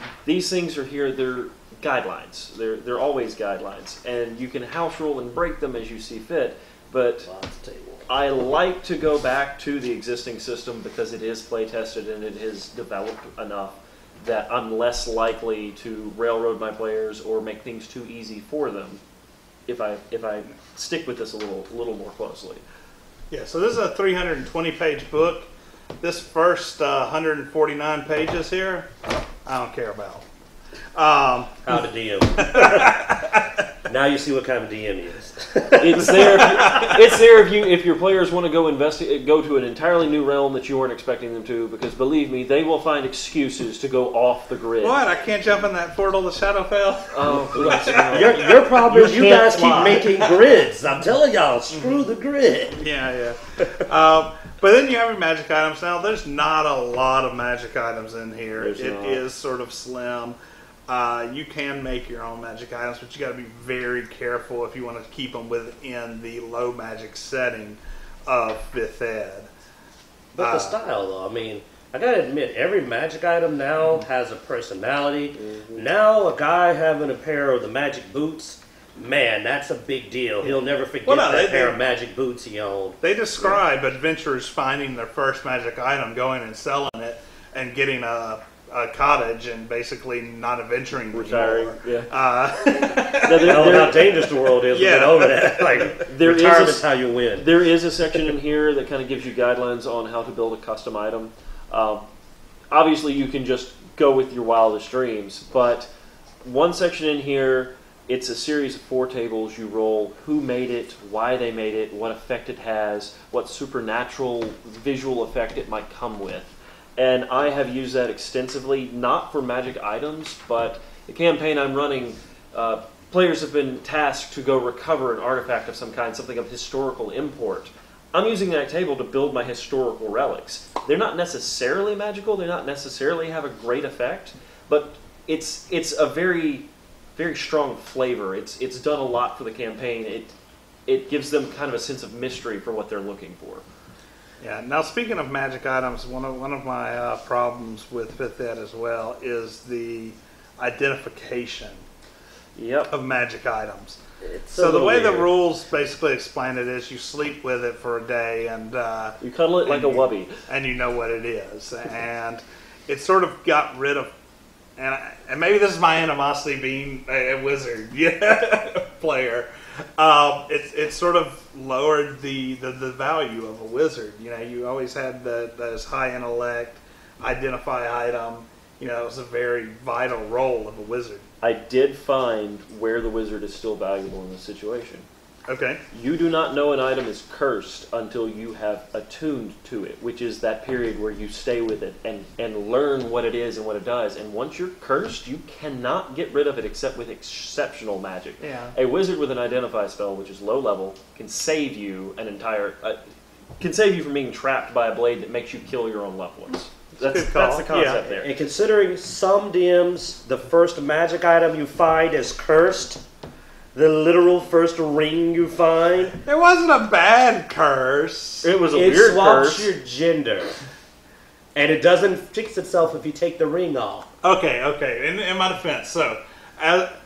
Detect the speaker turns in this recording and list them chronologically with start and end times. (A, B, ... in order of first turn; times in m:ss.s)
0:00.2-0:07.3 A
0:07.2-0:08.1 B
0:08.1-0:19.0 A
0:19.7-0:22.6 A
0:23.3-0:25.5 C
0:26.0-0:28.9 C
0:29.4-0:30.3 C
0:31.0-0:31.7 C
0:31.6-0:33.0 B
0:32.4-0:33.5 C
0:33.9-0:36.6 B
0:35.8-0:45.0 A
0:36.0-0:37.0 C
0:44.8-0:50.3 C
0:47.1-0:50.0 A
0:48.1-0:52.8 B
0:51.7-0:52.1 C
0:52.8-1:00.4 C
0:58.6-0:59.2 A
1:00.9-1:09.5 C
1:10.4-1:23.0 B
1:10.4-1:10.8 C
1:15.4-1:15.9 A
1:21.0-1:21.8 C
1:23.0-1:33.9 C
1:31.1-1:32.1 A
1:33.2-1:34.1 A
1:33.4-1:37.6 B
1:34.7-1:35.9 C
1:35.9-1:42.0 A
1:42.7-1:45.9 A
1:46.4-2:20.3 A
2:20.9-2:23.6 A
2:24.4-2:31.8 C
2:32.6-2:32.9 A
2:32.9-2:34.0 C
2:34.5-2:35.3 A
2:34.5-2:44.1 C
2:34.6-2:34.9 B
2:39.2-2:40.3 A
2:44.8-3:01.3 C
3:01.4-3:05.0 A
3:05.5-3:05.8 C
3:05.9-3:23.0 A
3:18.4-3:18.8 C
3:23.6-3:28.3 A
3:27.0-3:28.0 C
3:28.1-3:33.0 B
3:33.7-3:36.2 B
3:36.2-3:38.5 C
3:38.4-3:39.7 A
3:38.7-3:40.6 B
3:41.6-3:44.1 B
3:44.2-3:46.9 C